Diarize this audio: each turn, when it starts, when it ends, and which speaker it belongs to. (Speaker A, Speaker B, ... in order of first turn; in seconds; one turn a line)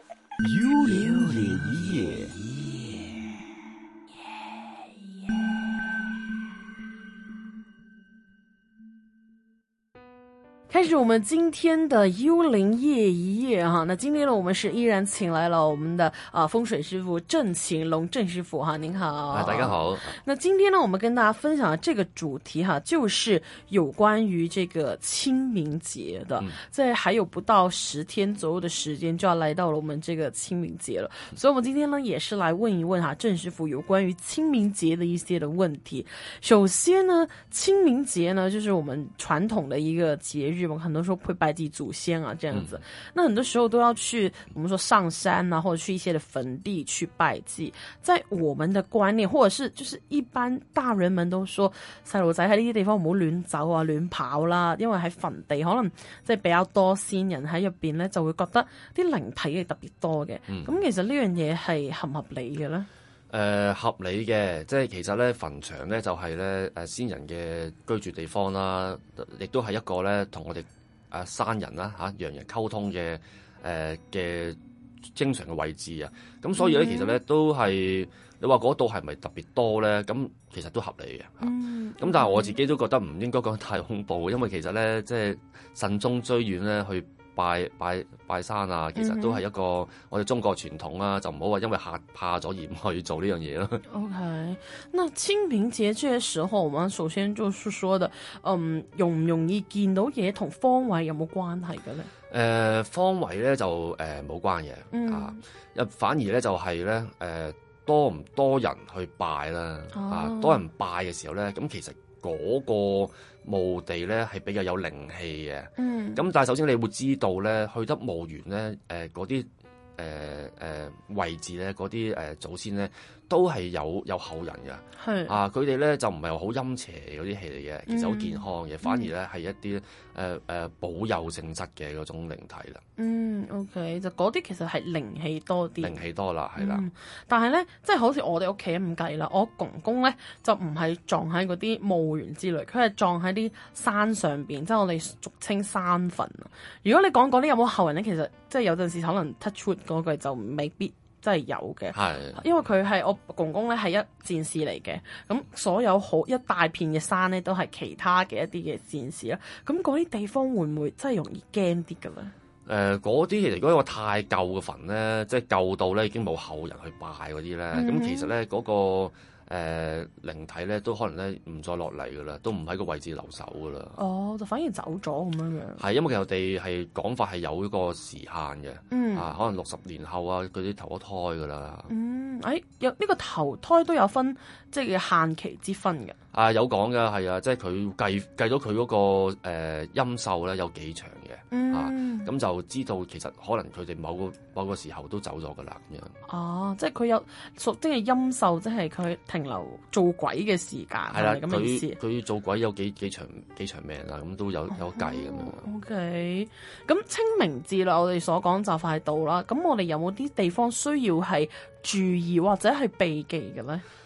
Speaker A: 0.4-2.4
Speaker B: 10.7-62.9
Speaker C: 19.3-20.2
Speaker C: 42.5-42.8
Speaker C: 60.5-60.8
Speaker C: 63.3-74.6
Speaker C: 75.1-93.8
Speaker B: 76.6-77.2
Speaker B: 81.4-82.6
Speaker B: 89.0-89.4
Speaker B: 93.9-102.1
Speaker C: 102.3-132.8
Speaker B: 104.9-105.4
Speaker B: 109.9-110.7
Speaker B: 115.8-116.2
Speaker B: 125.0-125.4
Speaker B: 127.9-129.1
Speaker B: 133.0-136.0
Speaker C: 135.8-136.9
Speaker B: 136.6-162.3
Speaker C: 151.9-152.4
Speaker C: 162.7-174.0
Speaker B: 167.7-168.3
Speaker B: 174.0-175.8
Speaker C: 175.8-181.9
Speaker B: 178.9-179.3
Speaker B: 181.9-186.2
Speaker C: 186.3-196.2
Speaker B: 191.5-192.3
Speaker B: 196.3-202.0
Speaker C: 201.1-205.7
Speaker B: 204.7-213.8